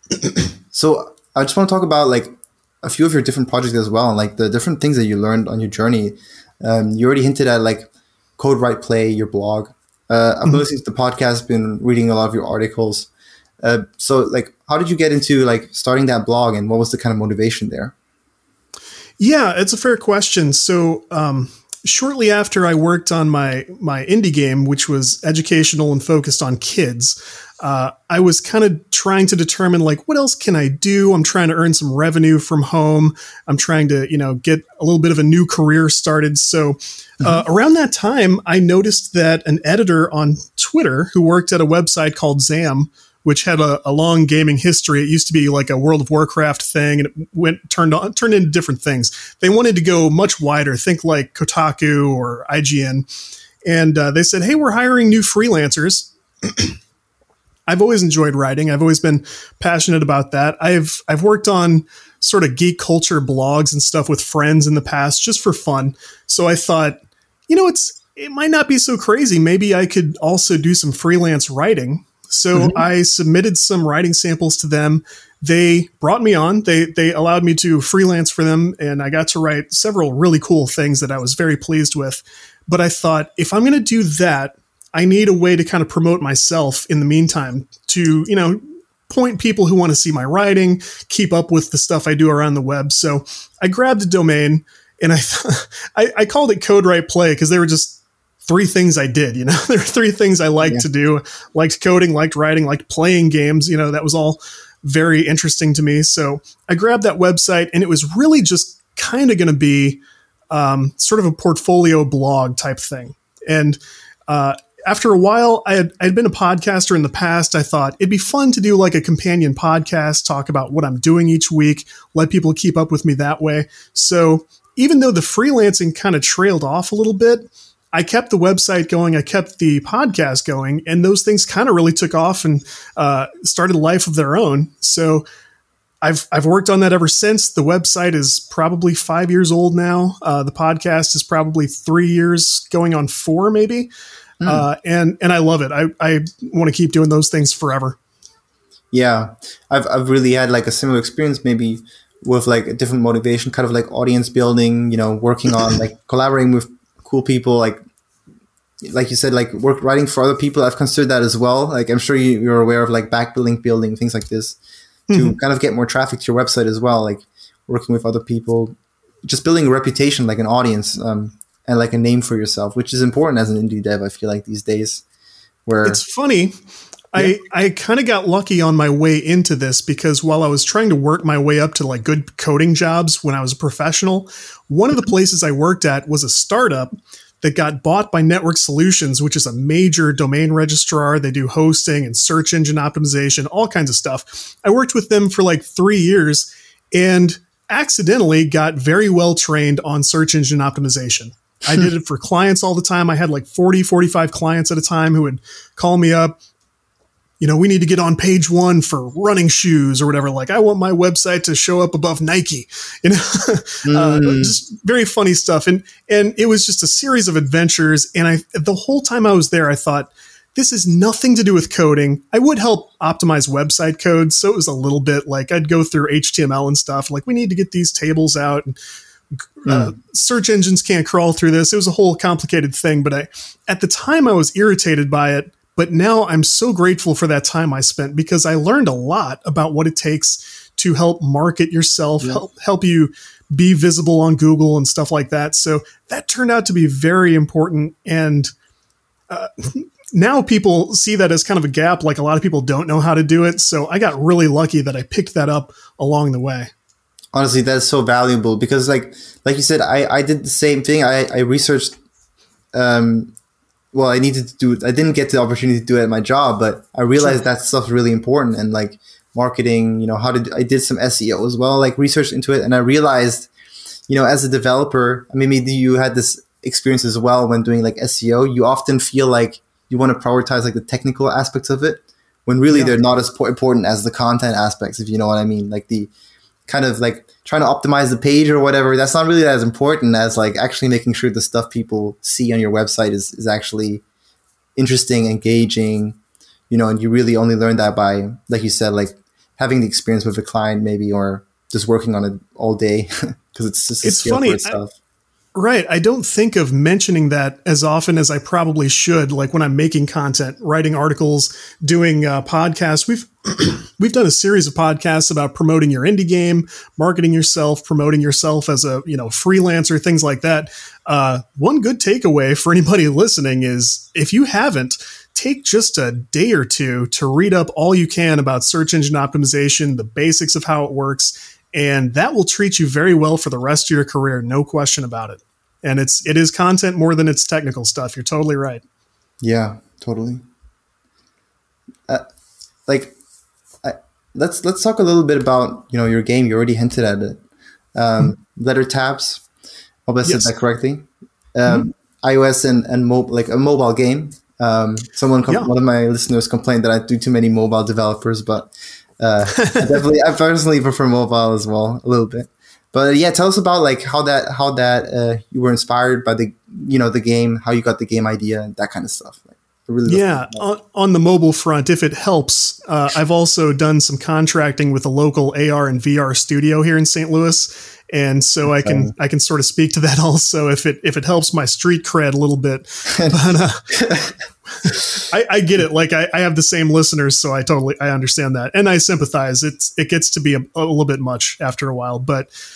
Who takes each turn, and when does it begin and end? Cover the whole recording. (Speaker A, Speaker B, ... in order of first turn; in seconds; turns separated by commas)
Speaker A: 0.7-13.1, Speaker A: 13.6-17.9, Speaker B: 19.2-53.1, Speaker B: 53.6-56.7, Speaker B: 57.7-110.0, Speaker A: 72.5-72.8, Speaker B: 110.5-135.2, Speaker B: 136.0-143.9, Speaker A: 144.4-144.7, Speaker B: 144.4-148.0, Speaker A: 148.9-157.8, Speaker A: 158.8-164.6, Speaker B: 165.1-165.3, Speaker A: 165.1-175.0, Speaker A: 175.7-176.0, Speaker B: 175.8-176.5, Speaker B: 177.1-206.4, Speaker B: 207.4-228.8, Speaker A: 213.8-214.6, Speaker B: 229.6-248.5, Speaker A: 229.7-229.9, Speaker B: 249.3-256.7, Speaker A: 257.3-262.0, Speaker A: 262.7-263.3, Speaker A: 263.9-273.5, Speaker A: 274.1-286.1, Speaker B: 282.7-282.9, Speaker A: 286.7-294.0, Speaker A: 294.8-296.2, Speaker A: 296.7-304.9, Speaker B: 304.0-304.8, Speaker B: 305.5-338.8, Speaker A: 339.4-340.4, Speaker A: 342.9-343.1, Speaker A: 343.8-347.4, Speaker A: 347.9-349.4, Speaker A: 350.1-370.6, Speaker B: 350.2-350.5, Speaker B: 359.5-359.9, Speaker B: 370.1-383.9, Speaker A: 378.8-379.1, Speaker A: 383.1-383.4, Speaker A: 383.9-384.3, Speaker B: 384.8-392.5, Speaker A: 384.9-385.2